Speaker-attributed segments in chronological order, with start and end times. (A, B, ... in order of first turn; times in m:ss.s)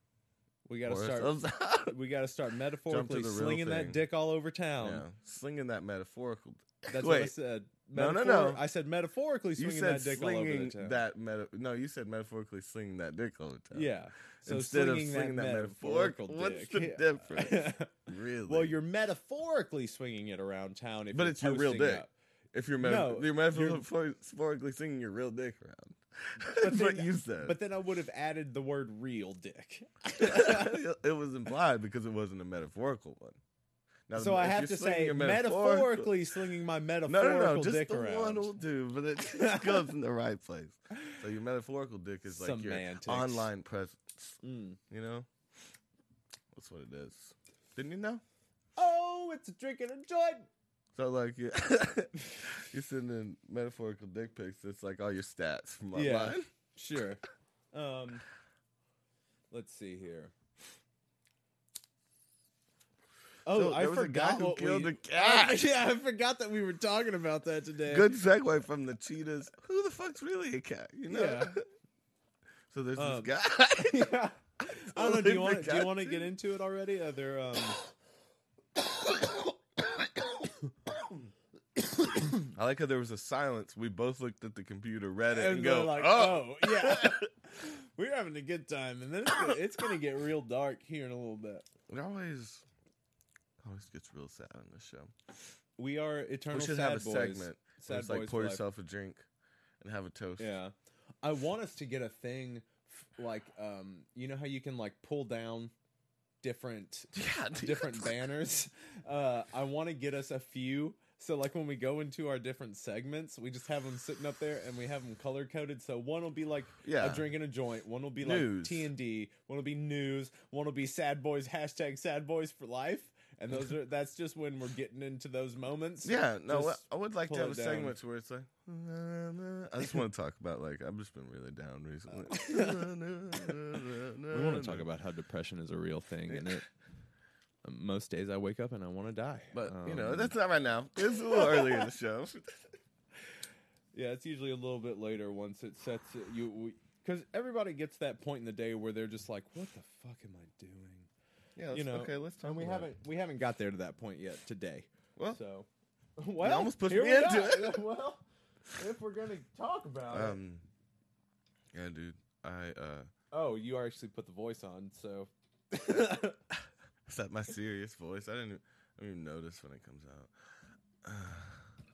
0:00.6-0:05.1 A
0:00.8-0:02.0 B
0:02.9-0:04.0 B
0:04.8-0:07.4 B
0:06.9-0:11.0 A
0:07.9-0:08.7 B
0:09.6-0:18.8 B
0:13.7-0:22.1 A
0:21.1-0:27.6 B
0:22.8-0:23.8 A
0:26.5-0:30.8 A
0:30.2-0:33.4 B
0:34.1-0:36.2 B
0:34.1-0:38.5 A
0:37.1-0:44.4 B
0:39.3-0:39.9 A
0:41.0-0:41.2 A
0:42.3-0:43.5 A
0:44.4-0:44.8 A
0:44.9-0:45.3 B
0:46.5-0:48.2 B
0:48.8-0:50.5 A
0:51.0-0:56.5 B
0:55.9-0:58.2 A
0:59.5-1:00.3 A
1:03.5-1:08.2 A
1:03.5-1:05.6 B
1:07.9-1:11.6 B
1:11.1-1:11.6 A
1:12.7-1:14.1 B
1:13.0-1:17.8 A
1:14.7-1:16.3 B
1:21.8-1:22.5 A
1:22.5-1:27.3 B
1:25.3-1:31.7 A
1:29.3-1:29.6 B
1:31.9-1:32.6 B
1:33.6-1:35.3 B
1:35.8-1:38.6 A
1:36.5-1:39.3 B
1:39.8-1:40.5 B
1:40.4-1:45.7 A
1:46.4-2:08.0 A
1:47.1-1:48.2 B
1:56.8-1:57.3 B
1:58.2-1:58.9 B
2:06.0-2:14.9 B
2:12.3-2:12.8 A
2:14.3-2:16.7 A
2:16.3-2:16.6 B
2:17.6-2:20.4 A
2:19.5-2:22.7 B
2:21.3-2:21.9 A
2:23.9-2:31.1 A
2:31.6-2:32.9 B
2:31.7-2:35.7 A
2:36.2-2:40.4 A
2:36.4-2:37.8 B
2:40.1-2:40.7 B
2:41.7-2:43.1 B
2:43.3-2:46.4 A
2:47.1-2:50.3 B
2:51.0-2:51.7 B